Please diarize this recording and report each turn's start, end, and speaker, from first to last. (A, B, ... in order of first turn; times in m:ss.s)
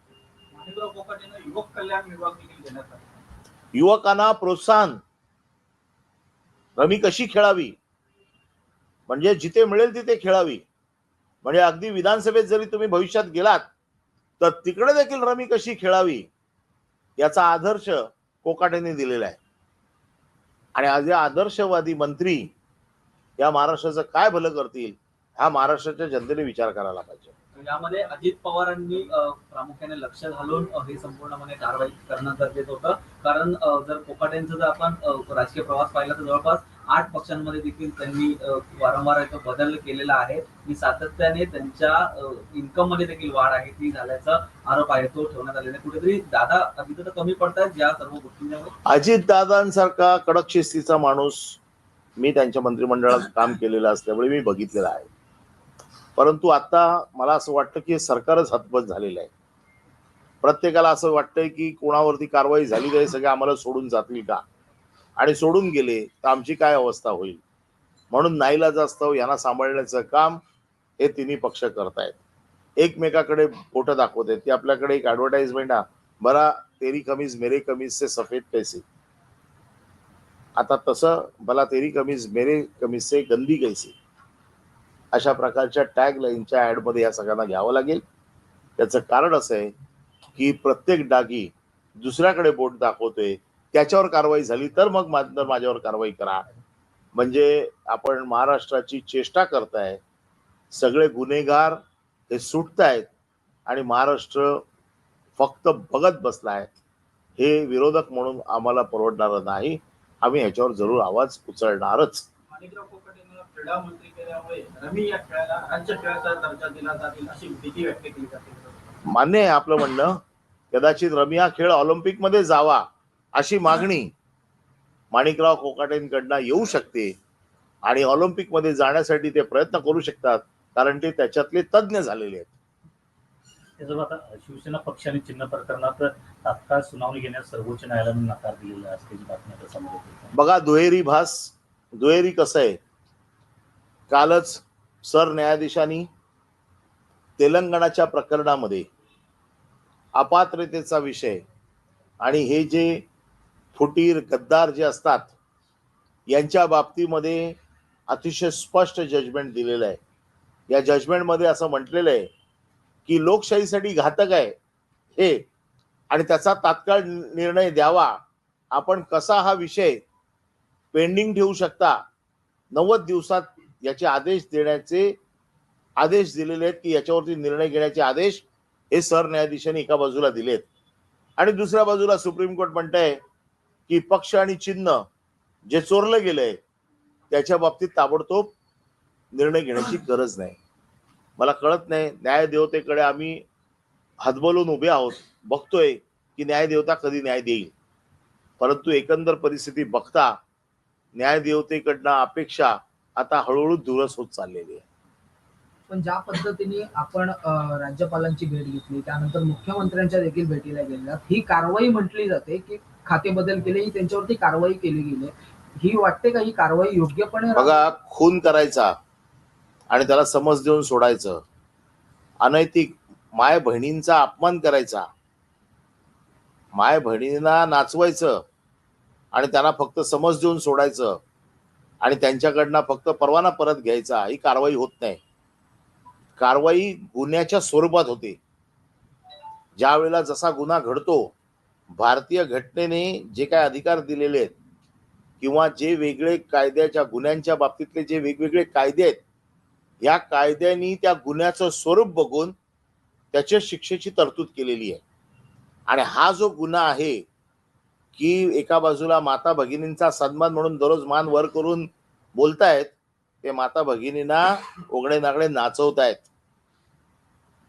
0:00.5-0:03.2 A
0:03.7-0:05.0 B
0:06.8-0:07.8 B
0:09.1-0:10.6 B
0:11.4-0:13.7 B
0:14.4-0:16.3 B
0:17.2-0:19.4 B
0:20.7-0:22.5 B
0:23.4-0:27.3 B
0:27.5-0:48.7 C
0:48.8-0:51.6 B
0:52.2-0:55.1 B
0:56.2-0:59.3 B
1:00.4-1:04.4 B
1:05.2-1:07.4 B
1:08.1-1:10.4 B
1:11.0-1:12.2 B
1:12.8-1:18.8 B
1:20.6-1:23.9 B
1:25.1-1:28.0 B
1:28.8-1:29.7 B
1:30.4-1:36.4 B
1:37.1-1:40.0 B
1:40.7-1:43.1 B
1:43.7-1:44.6 B
1:45.4-1:46.7 B
1:47.4-1:52.2 B
1:52.5-1:59.0 A
1:59.1-2:00.2 B
2:00.7-2:02.8 B
2:03.4-2:04.1 B
2:05.1-2:07.1 B
2:07.8-2:12.5 B
2:13.8-2:20.3 D
2:20.3-2:22.8 B
2:24.1-2:26.1 B
2:27.4-2:28.8 B
2:30.2-2:31.4 B
2:32.2-2:33.0 B
2:33.7-2:35.3 B
2:36.3-2:37.5 B
2:38.1-2:40.0 B
2:40.7-2:42.3 B
2:43.0-2:44.5 B
2:46.1-2:48.2 B
2:48.7-2:50.0 B
2:50.9-2:52.0 B
2:52.7-2:55.1 B
2:56.0-3:00.6 B
3:01.4-3:03.1 B
3:03.9-3:05.0 B
3:05.7-3:06.6 B
3:07.3-3:08.5 B
3:09.3-3:10.6 B
3:11.4-3:13.4 B
3:14.2-3:17.7 B
3:18.6-3:20.3 B
3:21.2-3:24.8 B
3:25.9-3:37.9 E
3:37.5-3:38.9 B
3:39.9-3:41.4 B
3:42.4-3:45.0 B
3:46.7-3:48.4 B
3:49.3-3:51.2 B
3:52.0-3:55.2 B
3:56.4-3:58.4 B
3:59.8-4:01.3 B
4:02.0-4:04.5 B
4:05.4-4:09.2 B
4:10.0-4:12.5 B
4:13.3-4:15.0 B
4:15.9-4:17.2 B
4:18.2-4:26.2 B